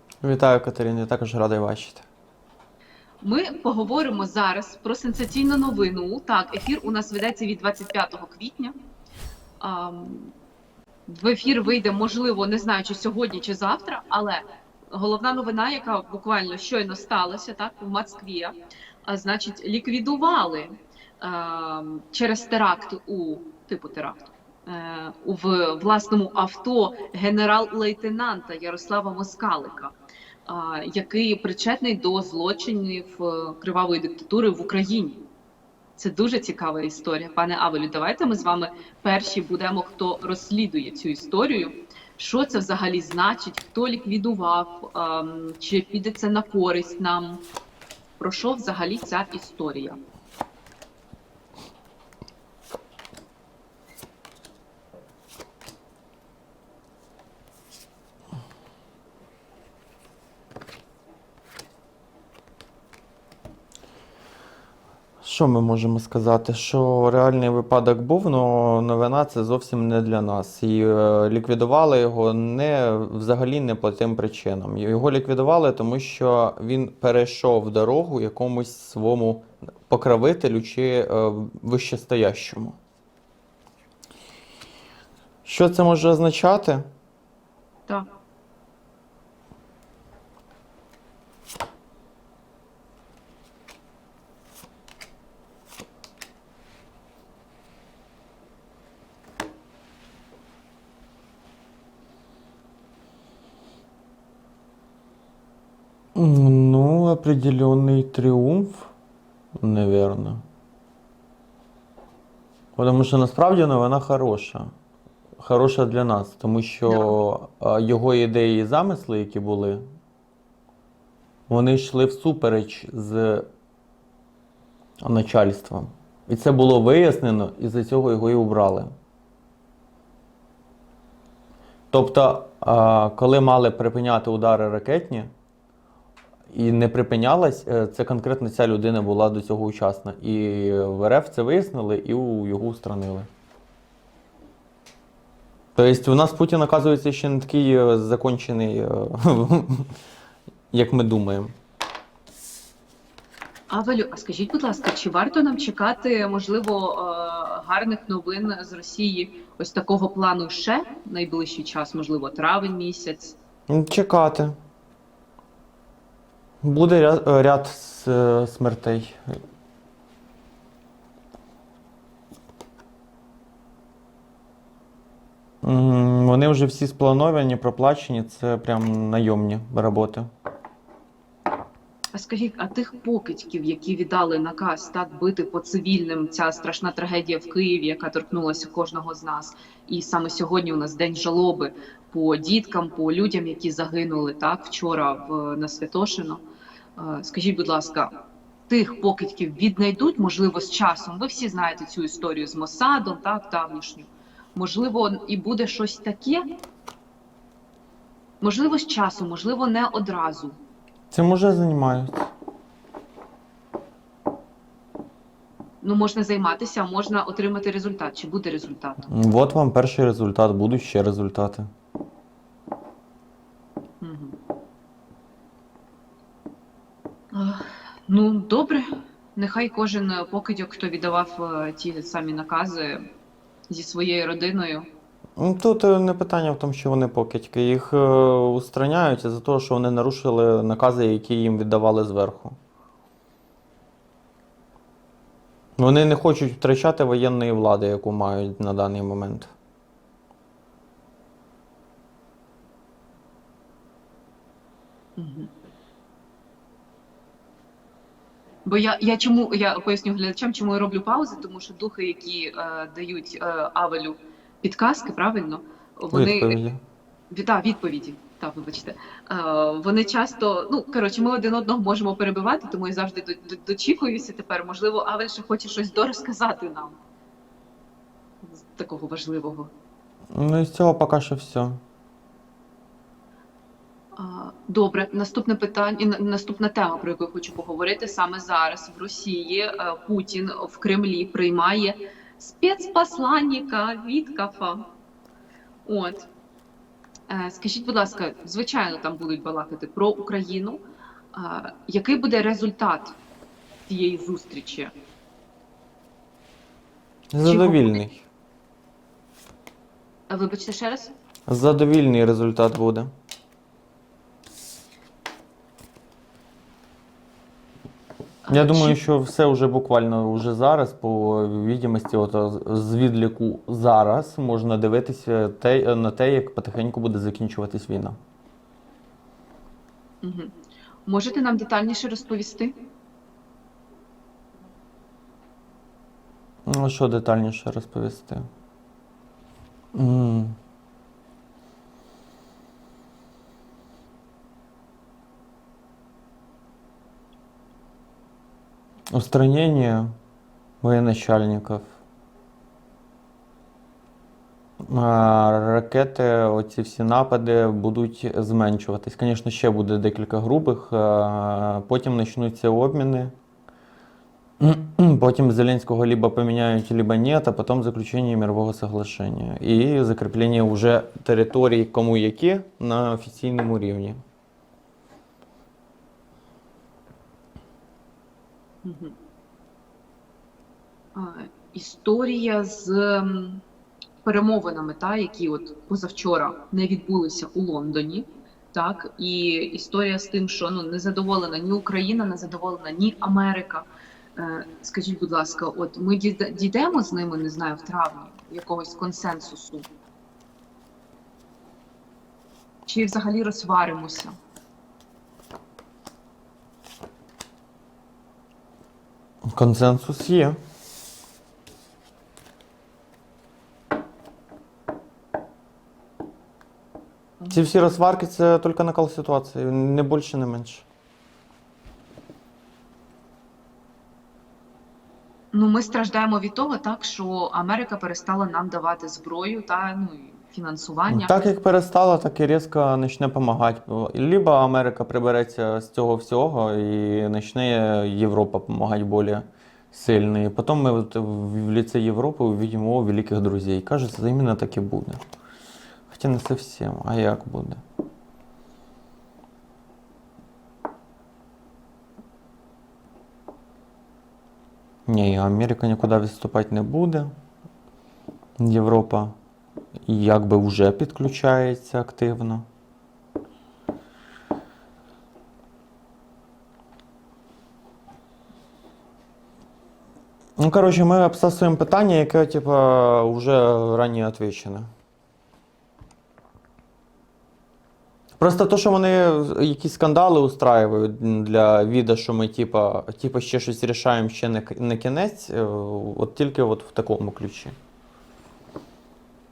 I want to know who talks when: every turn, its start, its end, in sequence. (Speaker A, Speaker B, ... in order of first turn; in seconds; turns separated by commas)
Speaker A: 0.2-2.0, Speaker B: 3.2-8.7, Speaker B: 9.6-10.3, Speaker B: 11.1-18.5, Speaker B: 19.1-29.9, Speaker B: 30.5-35.2, Speaker B: 36.0-47.4, Speaker B: 48.2-50.0, Speaker A: 65.2-82.8, Speaker A: 85.5-86.9, Speaker A: 106.2-108.9, Speaker A: 109.6-110.4, Speaker A: 112.8-114.7, Speaker A: 115.4-119.8, Speaker B: 116.9-117.2, Speaker A: 121.5-123.5, Speaker A: 125.0-128.9, Speaker A: 131.9-135.3, Speaker A: 136.5-143.3, Speaker A: 145.8-149.9, Speaker A: 150.7-151.5, Speaker B: 153.7-163.4, Speaker A: 163.7-164.6, Speaker A: 166.6-169.4, Speaker A: 175.6-180.3, Speaker B: 182.1-196.4, Speaker B: 197.0-198.1, Speaker B: 198.7-206.4, Speaker B: 208.4-210.6, Speaker A: 211.1-212.3, Speaker B: 215.8-219.1, Speaker A: 219.1-221.7, Speaker B: 224.0-224.4, Speaker B: 227.3-233.0, Speaker B: 233.7-234.9, Speaker A: 235.4-242.6, Speaker A: 245.8-249.5, Speaker B: 255.2-255.5, Speaker B: 258.6-266.6, Speaker A: 266.1-266.8, Speaker B: 267.3-277.0, Speaker B: 278.4-279.7, Speaker A: 280.3-281.8, Speaker B: 284.2-294.9, Speaker B: 295.9-296.3, Speaker B: 297.3-300.8, Speaker B: 301.3-303.1, Speaker B: 303.9-304.9, Speaker A: 307.3-308.2, Speaker B: 307.4-308.1, Speaker B: 310.3-311.1, Speaker A: 311.5-313.1, Speaker B: 318.5-319.0, Speaker A: 318.5-328.2, Speaker B: 330.2-330.5, Speaker B: 331.1-332.7, Speaker A: 336.7-338.5, Speaker A: 339.9-340.6, Speaker A: 349.1-350.1, Speaker A: 350.8-351.9, Speaker A: 354.8-363.3, Speaker A: 364.6-374.2, Speaker B: 378.8-379.1, Speaker B: 381.1-383.6, Speaker B: 384.2-399.9, Speaker B: 402.9-404.4, Speaker A: 409.5-410.6, Speaker A: 417.5-420.9, Speaker B: 425.5-431.3, Speaker A: 431.1-445.2, Speaker A: 446.1-447.8, Speaker A: 455.1-457.3, Speaker A: 458.6-459.3, Speaker A: 460.1-462.7, Speaker A: 470.6-474.9, Speaker A: 478.4-487.8